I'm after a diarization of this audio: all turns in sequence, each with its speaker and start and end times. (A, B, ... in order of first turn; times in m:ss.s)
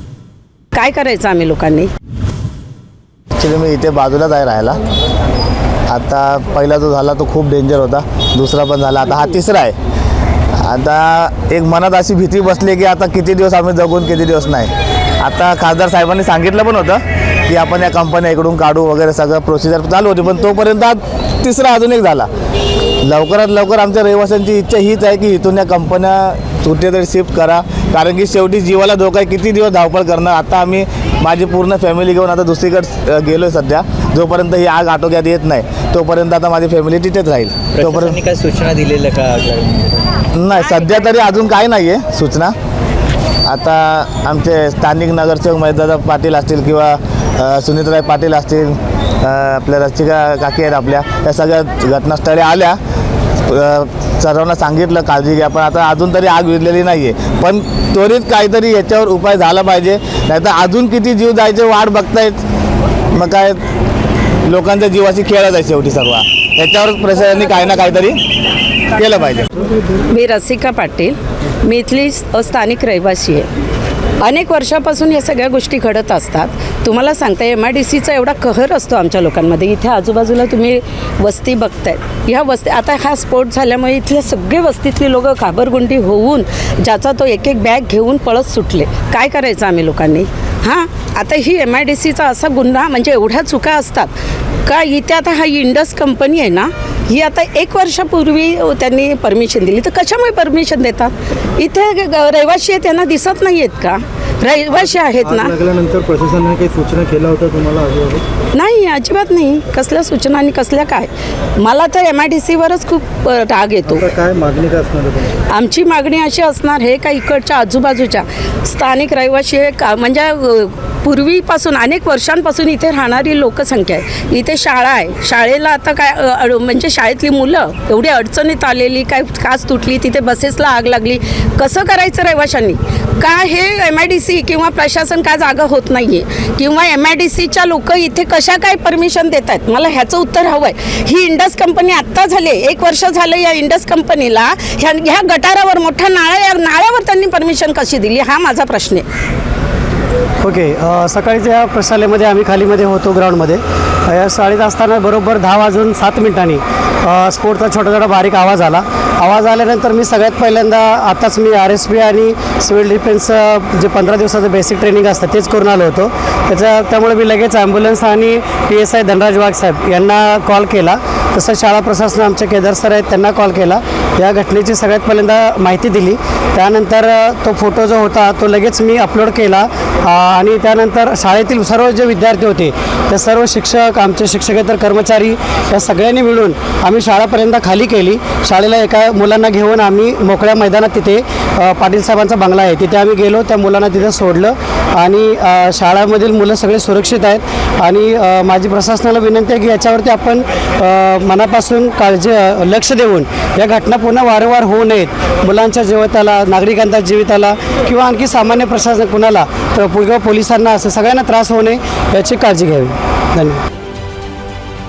0:00.7-0:01.9 A
0:03.4-0:04.8 B
0:05.9-0:09.8 B
0:10.5-0:22.3 B
0:23.0-0:38.2 B
0:37.7-0:40.0 C
0:40.3-0:42.5 B
0:43.4-0:52.8 B
0:53.4-1:02.4 B
1:03.1-1:03.6 B
1:04.4-1:08.2 B
1:08.9-1:09.5 B
1:10.0-1:13.5 A
1:14.2-1:34.1 A
1:34.6-1:45.5 A
1:44.8-1:48.2 D
1:48.5-1:54.0 A
1:53.8-1:55.4 D
1:55.5-2:29.0 A
2:30.4-3:33.6 E